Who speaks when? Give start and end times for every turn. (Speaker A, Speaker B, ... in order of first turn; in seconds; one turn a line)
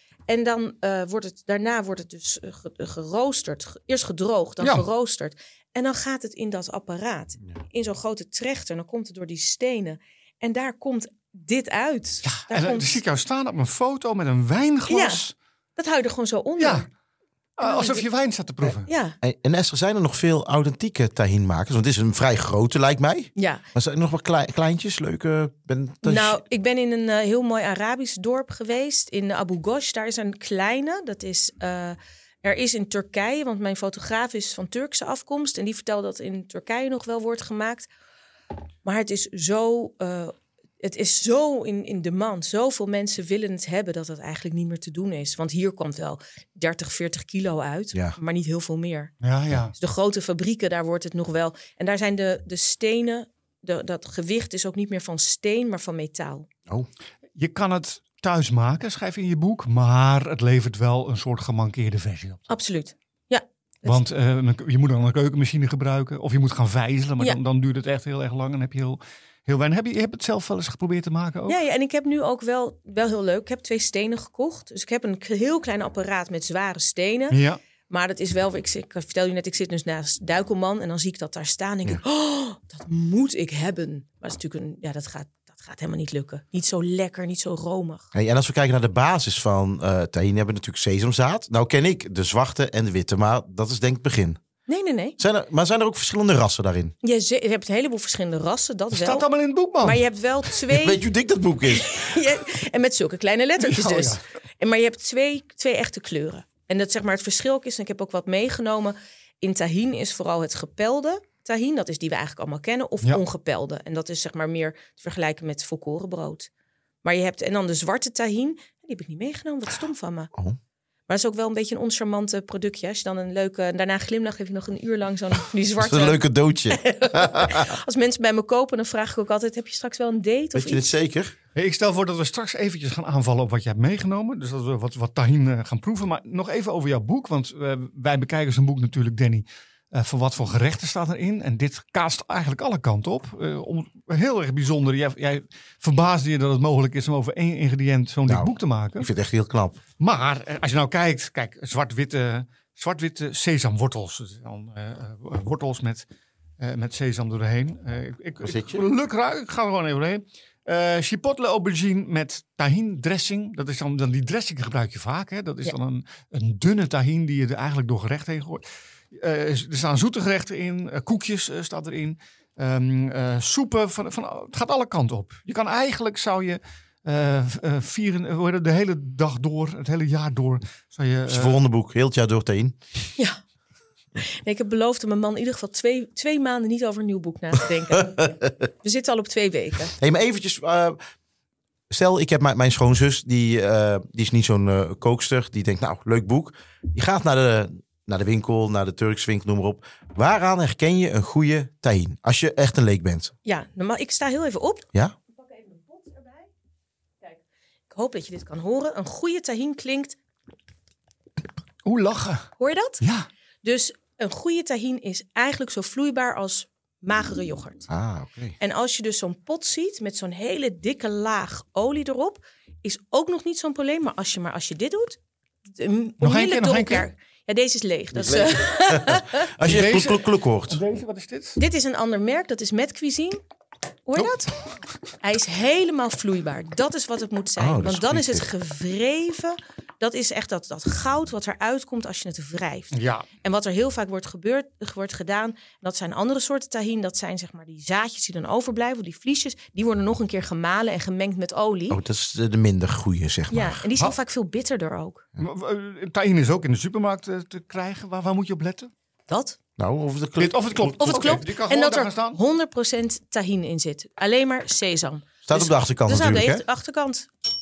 Speaker A: 0.3-13.0
Speaker B: 4.6-4.9
Speaker B: 12.2-15.3
Speaker A: 14.9-15.2
Speaker A: 15.8-16.9
Speaker B: 16.6-16.9
Speaker B: 17.6-18.9
Speaker A: 17.6-18.0
Speaker A: 18.7-19.2
Speaker C: 19.2-26.4
Speaker A: 23.4-23.6
Speaker A: 26.0-37.9
Speaker A: 38.9-49.1
Speaker B: 49.2-49.7
Speaker A: 49.8-56.5
Speaker B: 57.4-62.4
Speaker A: 62.5-64.0
Speaker B: 63.9-71.6
Speaker A: 71.5-88.1
Speaker B: 77.3-77.6
Speaker C: 88.1-94.4
Speaker A: 94.7-95.2
Speaker C: 95.2-96.9
Speaker A: 97.0-99.3
Speaker B: 98.9-100.0
Speaker A: 99.8-101.0
Speaker C: 100.7-102.2
Speaker A: 101.7-116.5
Speaker B: 103.6-104.2
Speaker A: 117.0-120.3
Speaker A: 121.1-130.9
Speaker C: 125.8-127.7
Speaker C: 130.5-131.3
Speaker B: 131.6-149.1
Speaker C: 148.3-149.8
Speaker B: 150.0-156.1
Speaker B: 156.6-181.6
Speaker C: 158.4-158.8
Speaker C: 181.3-182.8
Speaker A: 184.2-189.9
Speaker C: 190.0-191.0
Speaker C: 191.9-203.3
Speaker A: 203.5-206.5
Speaker A: 207.2-210.2
Speaker B: 211.8-212.5
Speaker A: 212.6-213.0
Speaker B: 213.0-213.3
Speaker A: 213.6-217.9
Speaker C: 217.9-218.6
Speaker A: 218.6-225.2
Speaker A: 225.8-229.5
Speaker B: 226.2-227.1
Speaker C: 228.2-230.8
Speaker B: 229.6-231.6
Speaker A: 231.6-233.4
Speaker A: 234.1-234.5
Speaker A: 235.2-252.0
Speaker C: 237.6-238.5
Speaker B: 242.9-243.3
Speaker C: 251.9-253.8
Speaker A: 253.5-255.3
Speaker B: 255.4-258.9
Speaker A: 259.3-259.6
Speaker C: 259.8-261.4
Speaker B: 260.4-262.4
Speaker A: 261.0-267.3
Speaker C: 265.5-266.6